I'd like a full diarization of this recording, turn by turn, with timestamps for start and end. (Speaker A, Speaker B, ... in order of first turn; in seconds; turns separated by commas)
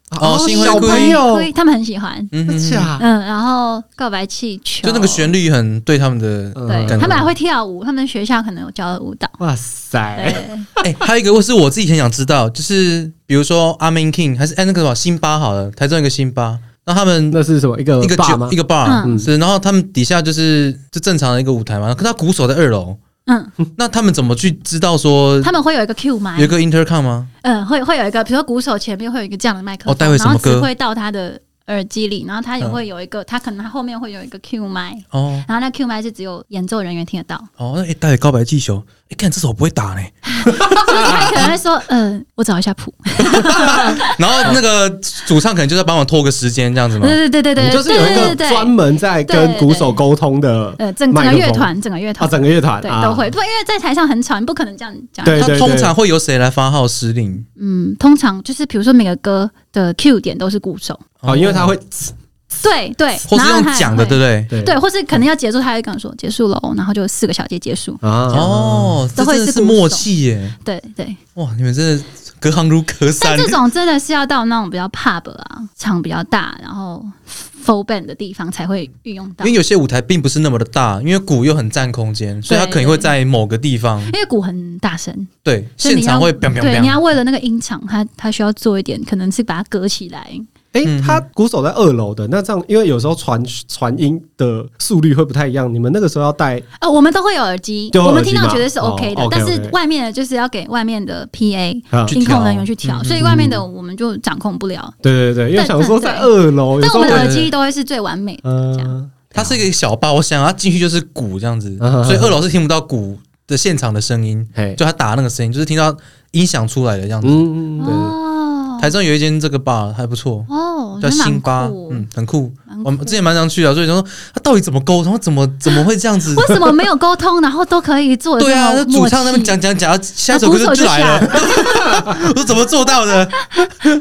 Speaker A: 0.1-1.5, Speaker B: 0.2-1.2, Speaker C: 0.5-2.3, Speaker B: 2.3-2.9, Speaker A: 2.5-3.0, Speaker C: 3.0-5.3, Speaker B: 4.8-7.2, Speaker A: 6.5-7.3, Speaker C: 6.6-9.4, Speaker A: 9.4-10.5, Speaker C: 10.1-10.7, Speaker B: 10.8-17.4, Speaker A: 17.3-19.3, Speaker B: 18.0-23.0, Speaker C: 18.9-19.2, Speaker C: 23.3-23.5, Speaker B: 23.8-25.5, Speaker C: 25.4-26.6, Speaker B: 26.4-27.3, Speaker C: 27.4-37.5, Speaker B: 29.9-30.7, Speaker B: 35.1-35.5, Speaker B: 37.6-40.2, Speaker C: 40.2-44.5, Speaker A: 40.6-41.2, Speaker B: 43.4-47.2, Speaker A: 43.6-43.9, Speaker C: 47.0-48.7, Speaker A: 47.6-53.3, Speaker B: 47.9-48.4, Speaker C: 49.3-50.0, Speaker C: 50.8-55.7, Speaker A: 55.2-55.9, Speaker B: 55.4-57.5, Speaker C: 57.6-61.0, Speaker B: 61.2-61.7, Speaker A: 61.2-62.1, Speaker C: 62.6-68.0, Speaker B: 63.3-64.5, Speaker A: 64.5-64.8, Speaker A: 68.0-69.0, Speaker B: 68.3-70.6, Speaker C: 69.2-70.1, Speaker C: 70.6-71.2, Speaker B: 71.4-73.6, Speaker C: 73.2-79.5, Speaker B: 79.4-84.1, Speaker C: 82.5-83.1, Speaker C: 84.1-90.5, Speaker B: 85.4-87.0, Speaker A: 90.7-96.6, Speaker B: 90.8-91.2, Speaker C: 96.8-105.0, Speaker A: 97.9-99.8, Speaker A: 101.9-102.2, Speaker B: 102.1-103.3, Speaker A: 103.2-103.6, Speaker A: 105.0-107.4, Speaker C: 105.5-108.9, Speaker B: 106.9-107.5, Speaker A: 108.4-109.6, Speaker B: 109.3-118.2, Speaker A: 111.8-112.4, Speaker A: 117.2-118.1, Speaker C: 117.8-118.9, Speaker B: 118.7-126.7, Speaker C: 120.5-122.0, Speaker C: 122.7-123.2, Speaker C: 126.3-129.6, Speaker B: 128.4-133.6, Speaker C: 130.3-132.2, Speaker A: 131.9-132.1, Speaker C: 132.9-133.7